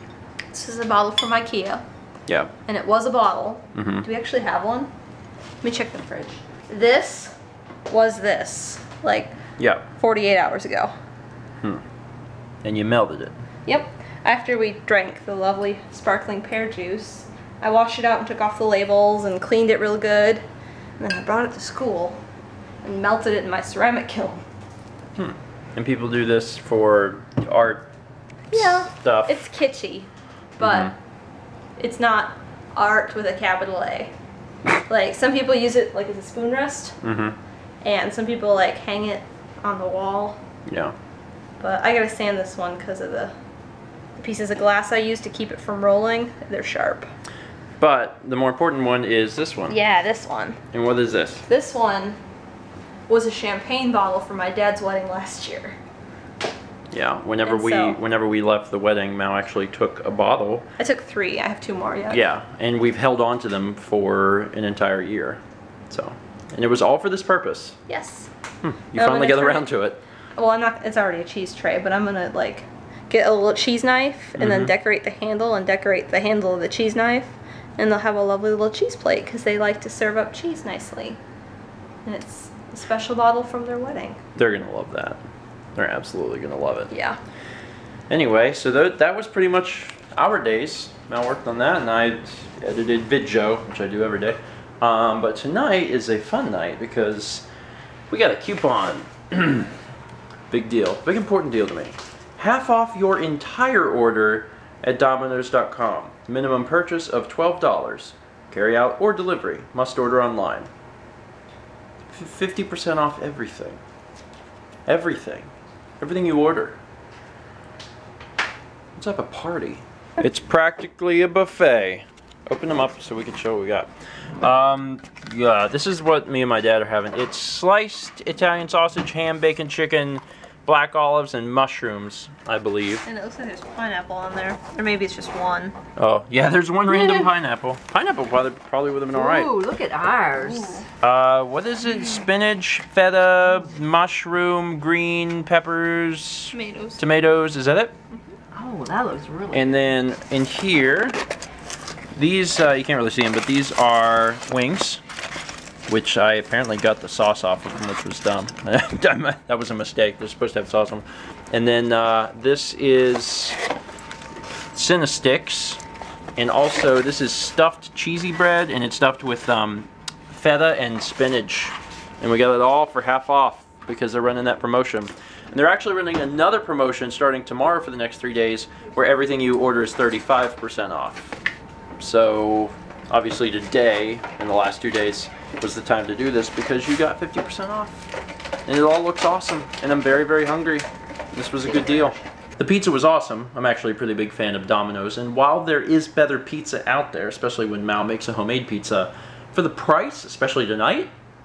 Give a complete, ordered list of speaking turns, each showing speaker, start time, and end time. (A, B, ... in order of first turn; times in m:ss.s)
0:00.5-0:01.8 A
0:02.3-0:02.5 B
0:02.7-0:04.9 A
0:03.7-0:04.1 B
0:05.6-0:07.4 A
0:07.9-0:09.4 A
0:09.6-0:09.8 B
0:10.0-0:10.9 A
0:12.6-0:13.3 B
0:13.6-0:20.4 A
0:21.0-0:22.2 A
0:22.8-0:24.4 A
0:25.2-0:27.8 B
0:28.5-0:29.4 B
0:28.5-0:30.9 A
0:30.6-0:30.9 B
0:31.8-0:34.1 A
0:34.9-0:37.0 A
0:37.0-0:37.4 B
0:37.8-0:40.4 A
0:40.7-0:40.9 B
0:41.6-0:43.3 A
0:44.2-0:47.1 A
0:47.8-0:49.8 B
0:49.7-0:50.6 A
0:50.7-0:51.4 B
0:51.5-0:52.2 A
0:53.1-0:55.8 A
0:56.9-1:00.6 B
0:57.4-0:58.0 A
1:00.8-1:02.2 A
1:02.1-1:07.8 B
1:07.9-1:08.3 A
1:08.6-1:10.0 B
1:09.0-1:09.7 A
1:10.4-1:21.2 A
1:14.4-1:14.7 B
1:22.0-1:24.2 A
1:24.4-1:25.2 B
1:25.8-1:26.9 B
1:26.9-1:27.2 A
1:28.1-1:37.4 B
1:38.1-1:39.7 B
1:40.5-1:50.7 B
1:52.1-1:53.8 B
1:54.9-1:56.8 B
1:59.0-2:03.9 B
2:04.4-2:13.0 B
2:13.0-2:15.7 A
2:16.0-2:19.5 B
2:19.1-2:20.8 C
2:20.4-2:20.8 A
2:21.0-2:27.9 B
2:26.5-2:27.0 A
2:28.5-2:29.7 C
2:29.5-2:31.2 B
2:32.1-2:35.0 B
2:35.9-2:43.6 B
2:44.7-2:45.8 B
2:46.4-3:01.4 B
3:02.0-3:08.1 B
3:08.6-3:21.1 B